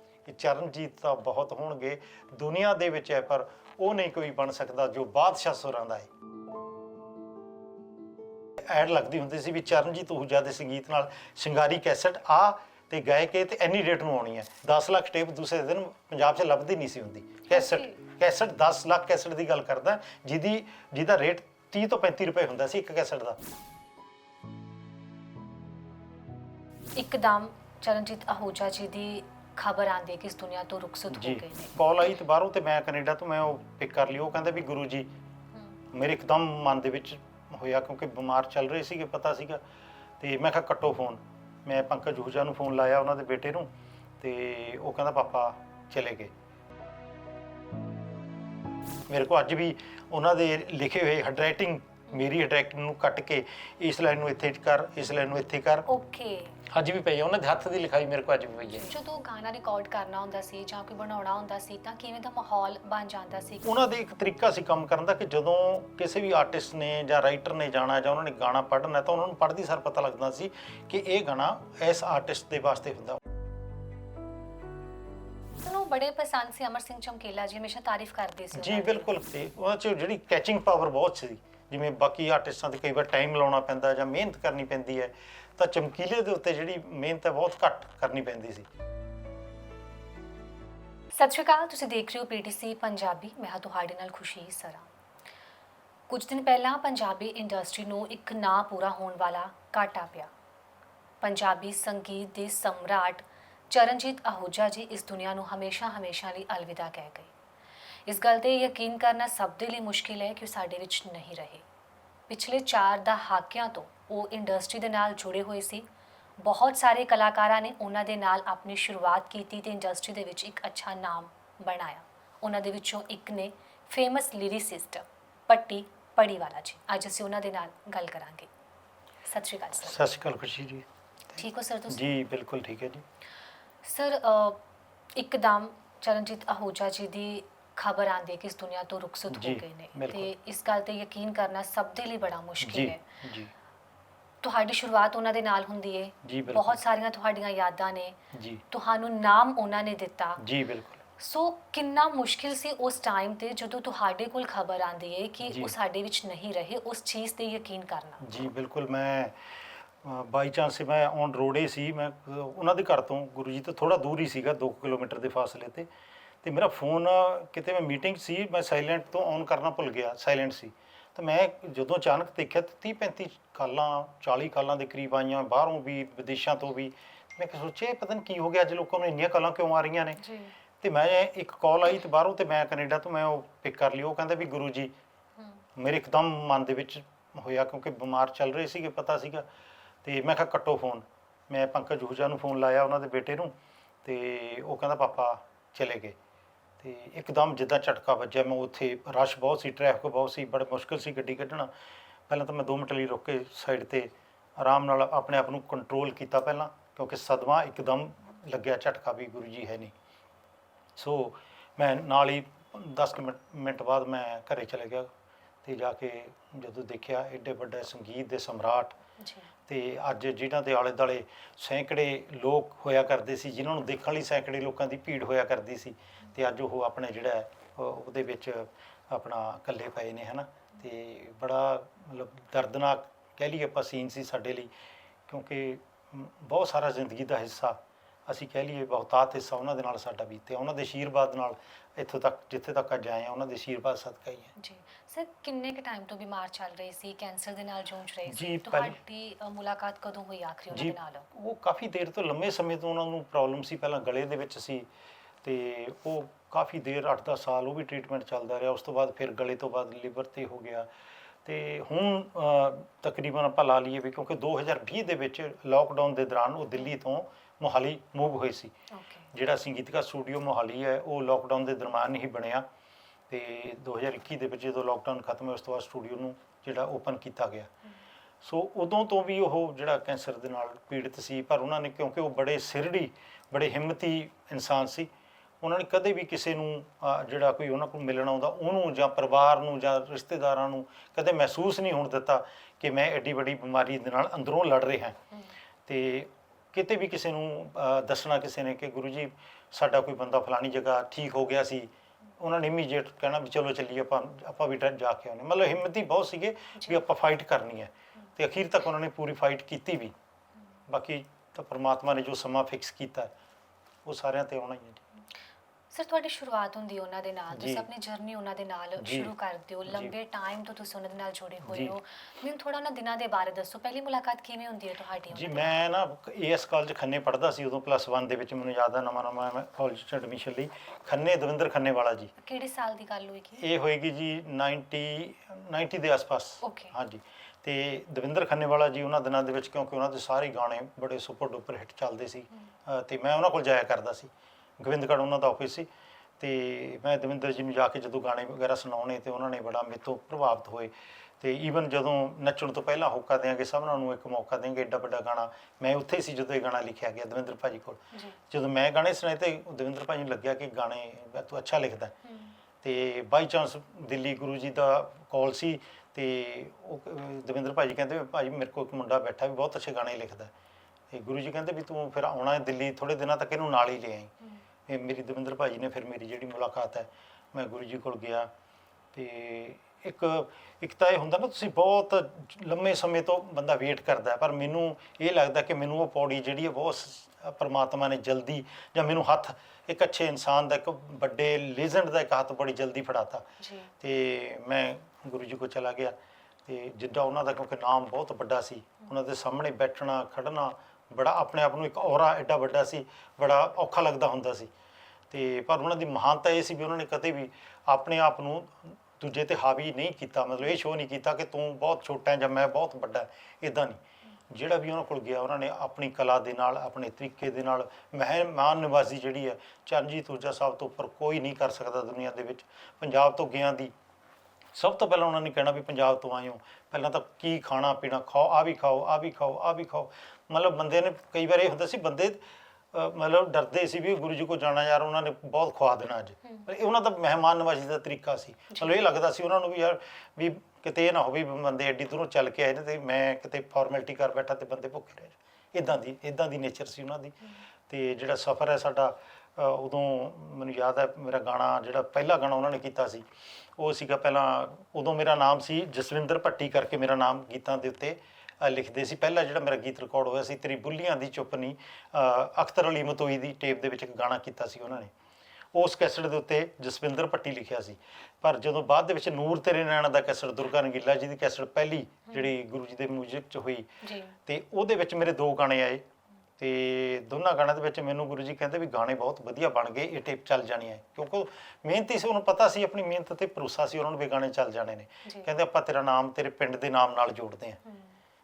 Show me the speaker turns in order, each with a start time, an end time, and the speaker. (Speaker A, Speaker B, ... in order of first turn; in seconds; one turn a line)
Speaker A: 0.2-6.1
Speaker A: 8.6-23.4
Speaker B: 17.5-18.0
Speaker B: 26.9-31.7
Speaker A: 31.1-35.1
Speaker A: 35.9-39.6
Speaker A: 40.2-43.7
Speaker A: 44.2-46.3
Speaker A: 49.1-55.9
Speaker B: 55.9-56.6
Speaker A: 56.7-58.9
Speaker B: 58.8-63.7
Speaker A: 63.6-73.2
Speaker B: 75.6-79.1
Speaker A: 78.5-88.7
Speaker B: 91.1-94.9
Speaker B: 96.1-100.3
Speaker B: 101.2-107.3
Speaker B: 108.0-111.6
Speaker B: 112.3-115.8
Speaker B: 116.4-128.5
Speaker B: 129.2-130.0
Speaker A: 129.8-133.0
Speaker B: 131.3-132.1
Speaker B: 133.8-134.6
Speaker B: 135.1-143.0
Speaker A: 139.3-140.3
Speaker A: 142.6-143.5
Speaker B: 144.4-148.2
Speaker A: 146.2-146.8
Speaker A: 148.3-148.6
Speaker B: 148.7-150.4
Speaker A: 150.4-151.0
Speaker B: 151.2-158.2
Speaker A: 155.4-155.7
Speaker A: 158.2-159.3
Speaker A: 160.0-165.9
Speaker A: 166.4-180.2
Speaker B: 180.2-180.5
Speaker A: 180.8-184.9
Speaker B: 185.4-185.6
Speaker A: 185.8-189.4
Speaker A: 190.0-196.2
Speaker A: 196.8-201.7
Speaker A: 202.3-209.9
Speaker A: 210.9-215.1
Speaker A: 215.6-218.9
Speaker B: 219.2-219.5
Speaker A: 219.7-234.7
Speaker A: 235.3-244.5
Speaker B: 244.6-251.3
Speaker A: 248.3-249.0
Speaker A: 250.7-254.8
Speaker A: 255.4-260.9
Speaker A: 261.4-268.7
Speaker B: 268.9-269.3
Speaker A: 269.3-272.6
Speaker A: 273.3-277.7
Speaker A: 278.4-285.1
Speaker A: 285.6-295.2
Speaker A: 295.9-301.9
Speaker A: 302.4-310.1
Speaker A: 310.9-313.3
Speaker A: 314.1-315.0
Speaker B: 315.9-325.8
Speaker A: 317.5-317.9
Speaker A: 319.0-319.3
Speaker A: 319.9-320.1
Speaker A: 321.6-321.9
Speaker A: 325.3-332.3
Speaker B: 332.4-333.6
Speaker A: 333.6-345.9
Speaker B: 336.6-336.9
Speaker A: 346.4-362.1
Speaker B: 358.1-358.4
Speaker B: 362.2-362.6
Speaker A: 362.8-370.5
Speaker A: 371.1-374.3
Speaker A: 374.9-378.5
Speaker A: 379.1-393.4
Speaker B: 393.6-393.9
Speaker A: 394.0-396.1
Speaker A: 396.6-404.7
Speaker A: 405.3-414.0
Speaker A: 414.5-423.9
Speaker A: 424.7-432.4
Speaker A: 432.9-447.4
Speaker A: 447.9-453.2
Speaker A: 453.8-465.1
Speaker A: 465.7-473.9
Speaker B: 474.0-474.3
Speaker A: 474.4-476.1
Speaker A: 476.6-487.8
Speaker B: 487.8-488.2